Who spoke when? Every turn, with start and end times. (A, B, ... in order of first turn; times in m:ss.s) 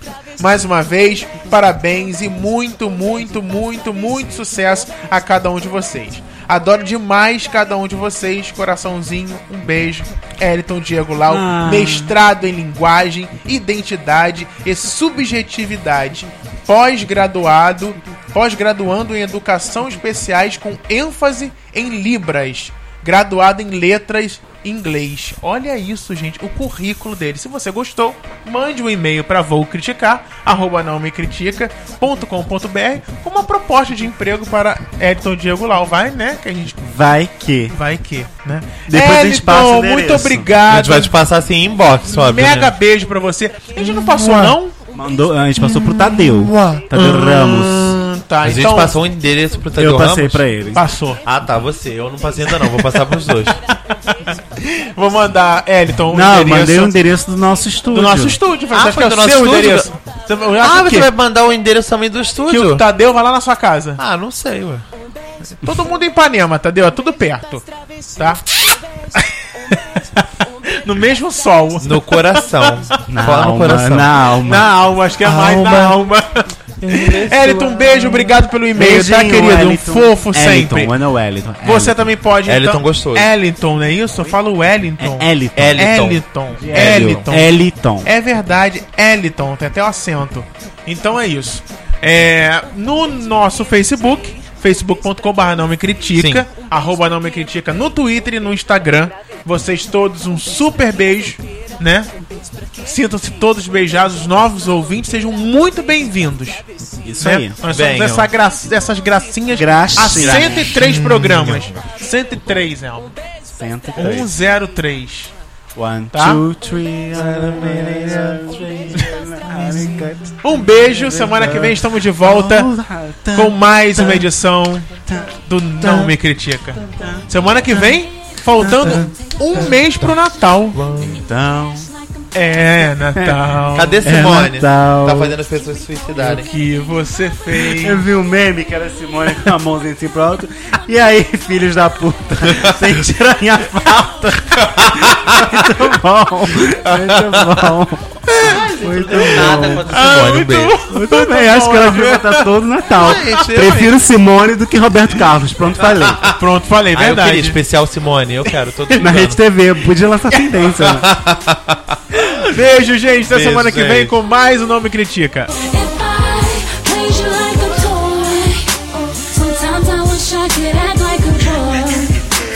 0:00.4-0:36.8 A
0:11.3-0:12.2 B
0:36.8-0:37.8 B
0:37.7-0:41.1 A
0:38.9-0:40.5 B
0:40.7-0:42.8 C
0:42.1-0:44.8 A
0:44.0-0:48.0 B
0:45.6-0:46.9 C
0:46.9-0:49.0 A
0:48.4-0:50.4 C
0:49.8-0:50.8 B
0:50.7-0:51.2 A
0:51.2-0:53.6 C
0:53.9-0:57.0 A
0:56.1-0:58.4 B
0:57.9-1:01.1 A
0:58.7-0:59.9 C
1:00.6-1:02.8 C
1:02.5-1:04.0 A
1:04.0-1:04.8 C
1:05.6-1:08.6 A
1:09.2-1:12.7 A
1:11.8-1:14.2 C
1:13.1-1:14.7 B
1:14.4-1:21.0 A
1:15.2-1:16.0 C
1:16.8-1:18.3 C
1:18.8-1:22.1 B
1:21.6-1:27.5 A
1:22.5-1:23.3 C
1:25.0-1:25.9 B
1:25.6-1:27.3 C
1:26.6-1:28.1 B
1:28.0-1:42.1 A
1:36.2-1:36.5 C
1:42.8-1:46.6 A
1:47.0-1:47.6 B
1:47.2-1:53.2 A
1:47.7-1:48.3 C
1:49.5-1:50.8 B
1:50.0-1:51.8 C
1:53.5-1:54.3 B
1:54.0-1:55.3 A
1:55.8-2:04.3 B
1:56.1-1:56.4 A
1:57.1-1:58.6 C
2:00.4-2:02.7 A
2:03.3-2:10.8 A
2:04.9-2:06.1 B
2:06.8-2:08.0 B
2:08.6-2:09.9 B
2:10.8-2:11.2 C
2:10.9-2:11.9 B
2:12.3-2:14.1 A
2:13.2-2:13.4 B
2:13.7-2:16.5 C
2:14.0-2:15.4 B
2:16.2-2:18.1 A
2:17.5-2:29.9 B
2:22.5-2:22.9 C
2:24.6-2:25.8 C
2:26.6-2:27.7 C
2:28.3-2:32.5 A
2:28.4-2:30.8 C
2:30.9-2:36.3 B
2:32.9-2:33.9 C
2:35.8-2:36.4 C
2:36.4-2:37.6 A
2:36.9-2:39.4 C
2:39.0-2:41.1 B
2:40.5-2:42.0 C
2:42.2-2:45.5 A
2:43.3-2:44.2 C
2:45.5-2:52.2 D